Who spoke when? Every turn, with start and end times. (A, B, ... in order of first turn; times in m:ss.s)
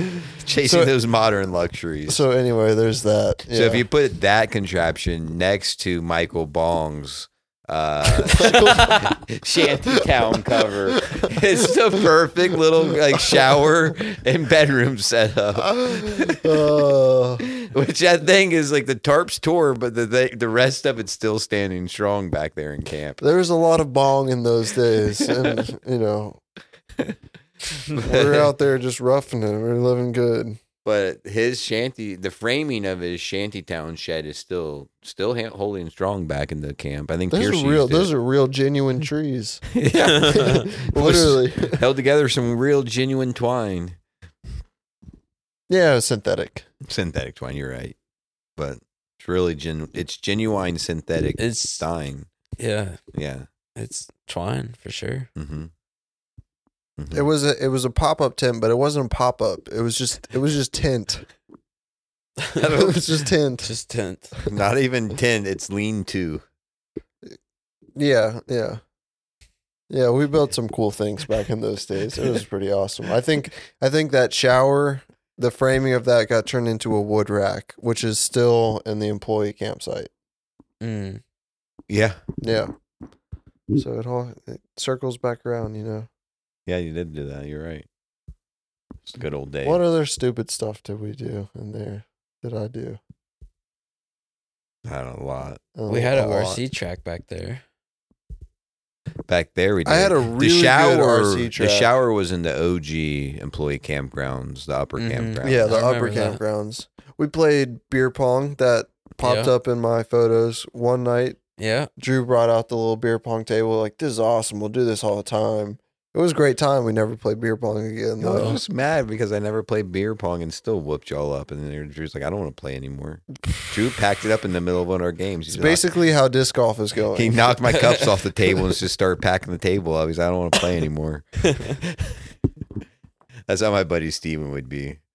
0:00.3-0:02.2 A
0:00.6-0:00.9 B
0:02.1-0:03.8 B
0:03.5-0:16.7 A
0:08.2-0:09.1 B
0:08.7-0:09.1 C
0:10.9-0:11.4 B
0:15.6-0:17.5 B
0:17.6-0:23.2 A
0:23.2-0:26.4 B
0:25.3-0:25.6 A
0:27.9-0:30.6 B
0:28.0-0:28.4 A
0:30.8-0:38.1 A
0:37.3-0:39.6 B
0:39.7-0:44.0 A
0:40.0-0:40.7 C
0:40.3-0:41.8 B
0:45.7-0:46.7 B
0:46.8-0:48.0 A
0:48.6-0:52.3 A
0:51.4-0:51.8 C
0:52.6-0:53.0 C
0:53.1-0:53.5 A
0:53.8-0:55.3 C
0:55.4-0:55.7 A
0:57.0-0:57.3 A
0:57.1-1:01.3 B
1:02.6-1:02.9 C
1:02.6-1:03.7 B
1:02.6-1:03.0 A
1:03.6-1:04.3 C
1:04.5-1:06.4 A
1:08.0-1:08.8 B
1:09.9-1:20.1 B
1:20.8-1:21.2 C
1:21.9-1:22.2 A
1:22.4-1:22.7 B
1:23.7-1:26.1 B
1:26.7-1:27.9 A
1:29.1-1:29.8 A
1:29.6-1:33.0 B
1:34.8-1:35.6 A
1:35.8-1:36.6 B
1:35.9-1:37.6 C
1:39.3-1:45.8 A
1:39.9-1:41.9 B
1:45.0-1:46.4 C
1:45.4-1:51.4 B
1:49.2-1:49.5 C
1:51.6-1:51.9 C
1:52.0-1:58.6 B
1:58.2-2:05.8 A
1:58.3-1:58.6 C
2:05.5-2:07.6 B
2:07.1-2:11.3 A
2:07.7-2:08.1 C
2:11.4-2:11.8 C
2:11.8-2:12.2 A
2:13.5-2:15.0 A